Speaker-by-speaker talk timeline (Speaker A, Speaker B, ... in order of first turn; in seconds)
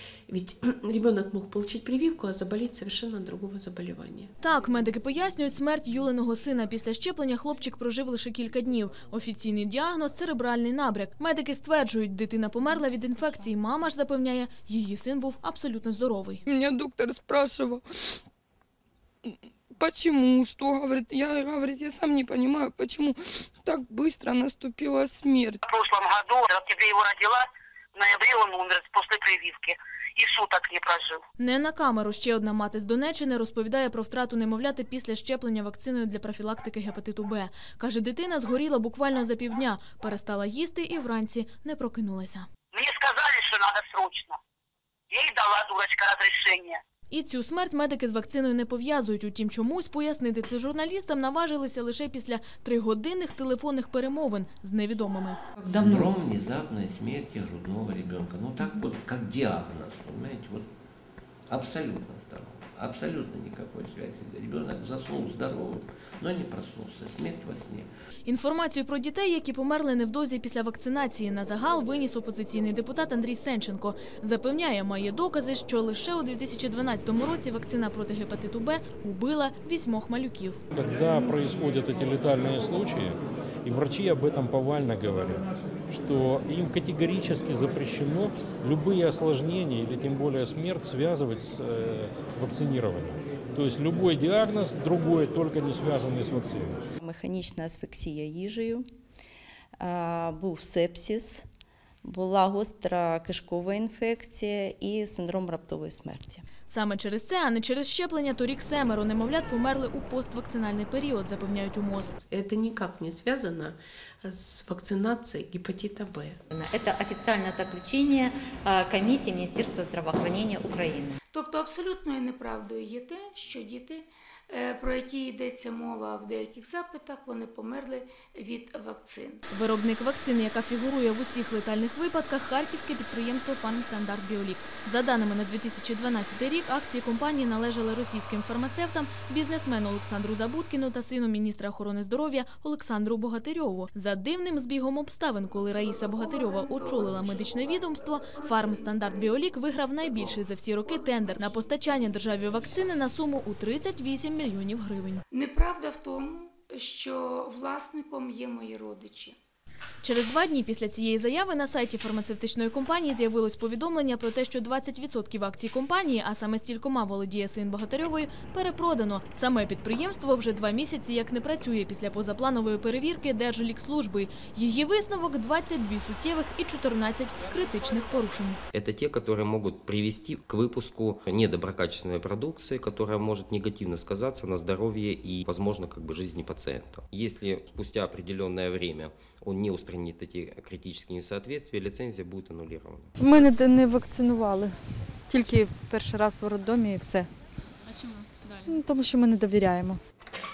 Speaker A: 0.3-4.3, 112.3-116.4
Speaker B: 4.4-16.4, 31.4-42.5, 47.1-55.4, 68.2-80.6, 106.7-112.1, 129.5-155.2, 160.0-178.6
Speaker C: 16.5-17.8, 19.8-25.6
Speaker D: 25.6-31.2, 42.7-44.4, 45.1-46.8
Speaker E: 55.7-60.7, 61.5-67.9
Speaker F: 55.8-56.0, 116.5-121.2
Speaker G: 80.8-96.8
Speaker H: 97.0-98.8, 99.8-101.5, 102.0-106.5
Speaker I: 121.3-129.4, 155.3-159.4
Speaker J: 178.7-193.1
Speaker K: 193.2-197.3, 198.7-200.0